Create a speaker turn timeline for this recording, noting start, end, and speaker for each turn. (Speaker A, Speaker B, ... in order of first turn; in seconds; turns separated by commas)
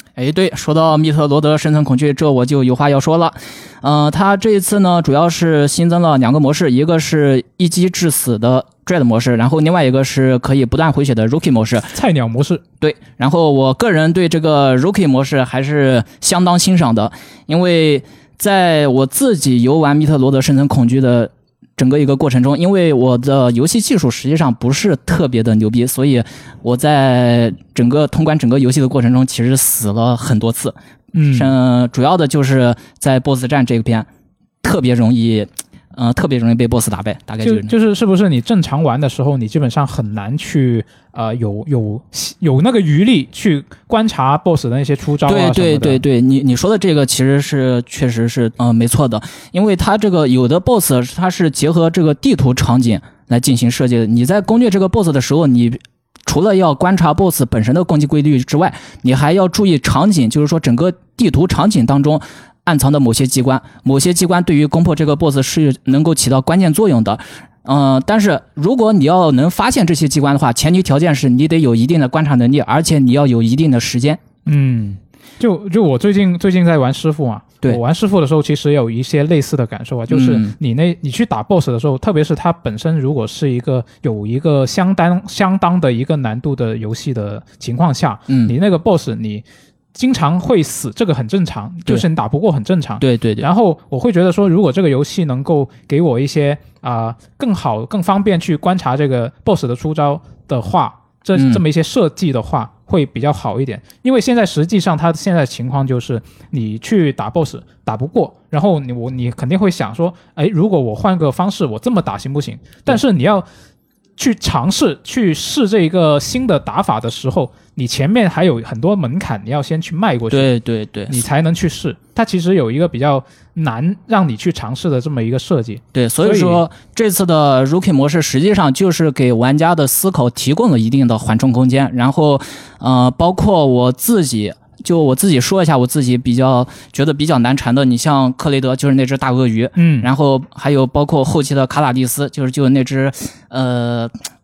Speaker A: 0.2-11.9, Speaker B: 11.9-12.6, Speaker A: 12.8-30.8, Speaker B: 31.1-31.5, Speaker A: 31.3-34.1, Speaker A: 34.6-37.7, Speaker B: 37.4-46.0, Speaker A: 45.3-74.2, Speaker B: 74.5-113.5, Speaker A: 80.1-80.5, Speaker A: 88.3-88.5, Speaker A: 93.0-93.5, Speaker A: 101.4-101.6, Speaker B: 114.2-120.5, Speaker A: 120.3-121.2, Speaker B: 121.1-126.7, Speaker A: 126.0-144.2, Speaker B: 139.8-140.1